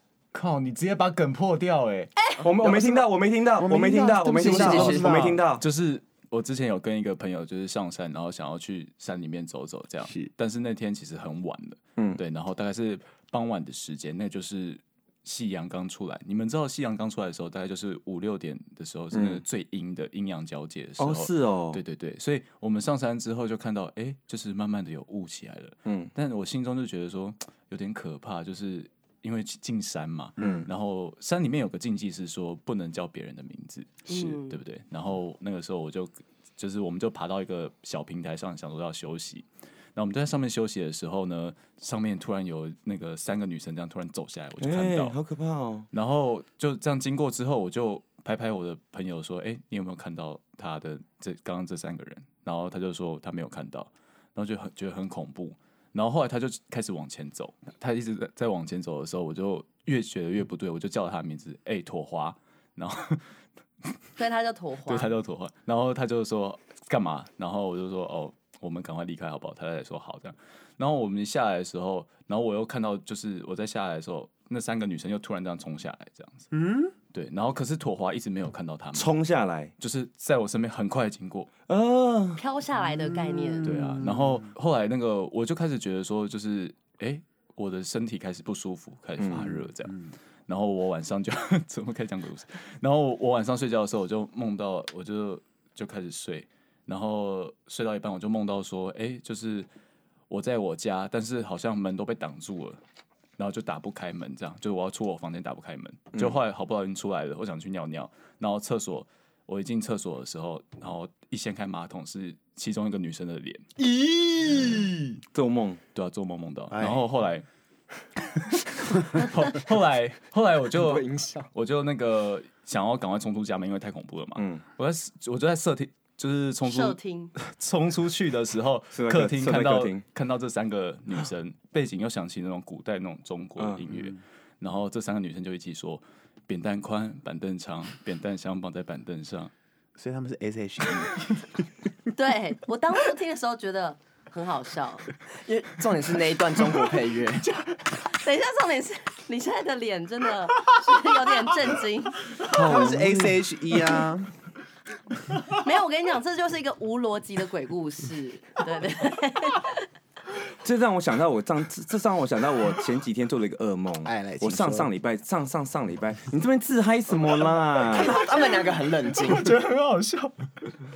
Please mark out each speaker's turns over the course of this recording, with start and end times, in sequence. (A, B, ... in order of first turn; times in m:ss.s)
0:00.3-0:02.8 A
0:02.2-0:02.4 B
0:02.4-0:05.6 C
0:02.6-0:03.0 D
0:03.6-0:05.4 D
0:04.4-0:45.2 A
0:04.5-0:05.0 E
0:19.1-0:19.4 C
0:21.0-0:21.8 C
0:25.8-0:26.1 C
0:30.4-0:30.7 C
0:34.1-0:34.6 B
0:44.6-0:45.9 C
0:45.9-1:03.2 A
1:04.2-1:05.1 B
1:04.8-1:16.4 A
1:16.5-1:16.9 D
1:17.1-1:19.1 A
1:18.9-1:19.7 C
1:19.8-1:21.5 A
1:21.7-1:22.4 C
1:22.4-1:23.8 B
1:22.8-1:24.4 D
1:23.6-1:39.7 A
1:29.2-1:29.7 C
1:40.3-1:42.8 A
1:43.4-1:53.6 A
1:53.8-1:55.1 D
1:55.3-1:55.8 C
1:55.9-1:57.4 A
1:56.7-1:57.1 D
1:59.1-2:19.5 A
2:00.7-2:01.5 E
2:04.4-2:04.6 C
2:06.6-2:07.3 B
2:08.9-2:10.0 C
2:13.6-2:13.8 C
2:20.0-2:21.7 D
2:22.1-2:25.1 B
2:25.3-2:27.9 E
2:28.0-2:32.3 B
2:32.4-2:33.3 C
2:32.5-2:34.3 D
2:35.4-2:39.9 B
2:40.6-2:48.1 C
2:44.0-2:44.9 D
2:47.9-2:49.5 E
2:48.2-2:50.8 A